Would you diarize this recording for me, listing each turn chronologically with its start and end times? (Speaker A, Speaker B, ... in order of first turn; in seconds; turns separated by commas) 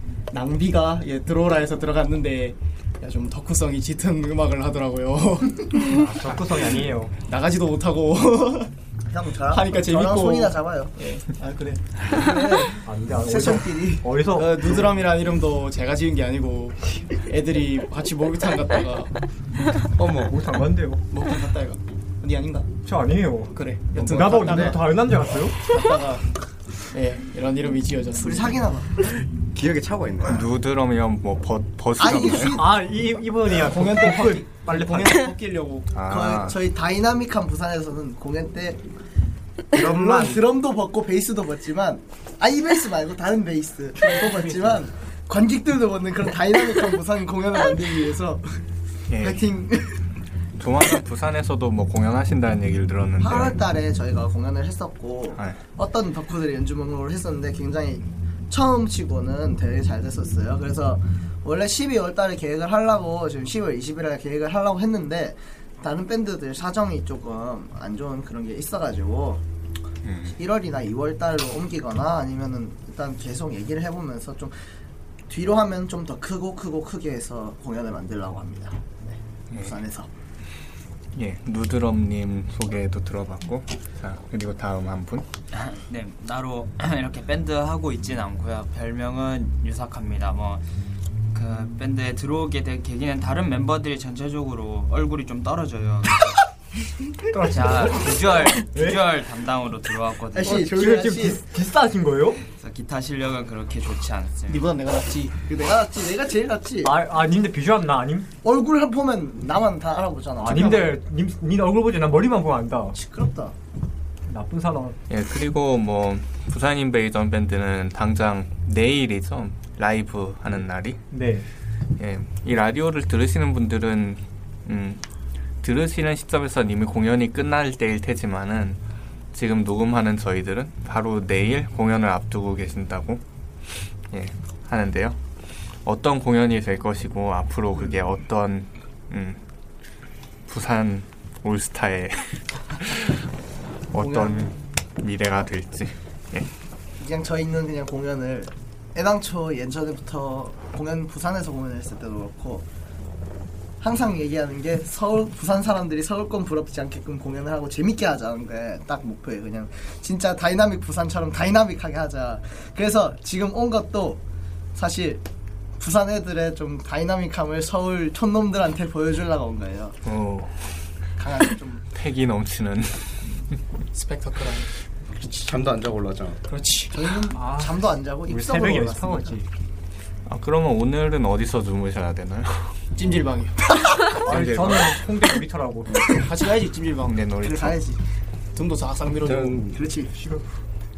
Speaker A: 0.3-5.9, Speaker B: 5.9-7.1, Speaker A: 7.2-8.7, Speaker C: 9.1-10.9, Speaker A: 9.5-11.8, Speaker C: 12.1-14.1, Speaker B: 12.8-14.9, Speaker A: 14.3-19.2, Speaker D: 20.0-20.4, Speaker B: 20.2-21.0, Speaker A: 21.1-22.7, Speaker B: 22.8-25.8, Speaker A: 23.5-25.0, Speaker A: 25.6-26.3, Speaker A: 26.9-28.6, Speaker C: 28.2-28.9, Speaker D: 29.5-30.5, Speaker E: 30.3-32.6, Speaker C: 32.0-32.8, Speaker B: 32.5-35.3, Speaker A: 33.6-35.9, Speaker C: 33.9-34.4, Speaker E: 35.9-36.6, Speaker C: 36.0-38.8, Speaker D: 39.7-40.5, Speaker C: 39.8-48.4, Speaker B: 44.1-44.8, Speaker E: 49.1-49.4, Speaker C: 49.2-50.0, Speaker E: 50.6-53.6, Speaker C: 53.2-69.4, Speaker E: 70.0-70.4, Speaker C: 70.3-74.5, Speaker C: 75.3-79.0, Speaker C: 79.5-80.1, Speaker E: 81.2-85.2, Speaker F: 85.5-90.7, Speaker F: 91.3-96.4, Speaker B: 97.3-99.0, Speaker F: 97.5-100.7, Speaker C: 100.3-101.4, Speaker B: 100.5-102.4, Speaker F: 102.6-104.7, Speaker A: 104.5-105.3, Speaker C: 105.5-106.9, Speaker B: 106.8-108.3, Speaker C: 108.4-111.0, Speaker B: 110.4-113.0, Speaker C: 112.9-113.5, Speaker B: 114.3-115.0, Speaker E: 115.1-121.0, Speaker B: 121.1-121.5, Speaker E: 122.0-125.0, Speaker E: 125.6-128.8, Speaker E: 129.3-133.2, Speaker E: 134.1-135.2, Speaker E: 135.8-139.4, Speaker E: 140.5-143.2, Speaker E: 143.9-146.5, Speaker C: 144.0-144.5, Speaker C: 147.0-152.7, Speaker C: 153.8-164.2, Speaker C: 164.8-165.2, Speaker C: 165.8-170.0, Speaker E: 170.1-170.7, Speaker C: 171.2-171.8, Speaker E: 171.9-173.2, Speaker A: 173.9-174.7, Speaker D: 175.4-176.4, Speaker A: 176.5-176.9, Speaker C: 176.9-179.4, Speaker B: 177.3-179.5, Speaker E: 180.3-182.7, Speaker A: 183.0-183.7, Speaker B: 184.2-186.1, Speaker E: 184.2-185.0, Speaker A: 186.1-187.2, Speaker E: 187.0-187.8, Speaker C: 187.4-188.0, Speaker A: 188.6-189.7, Speaker D: 189.2-189.8, Speaker C: 189.7-190.1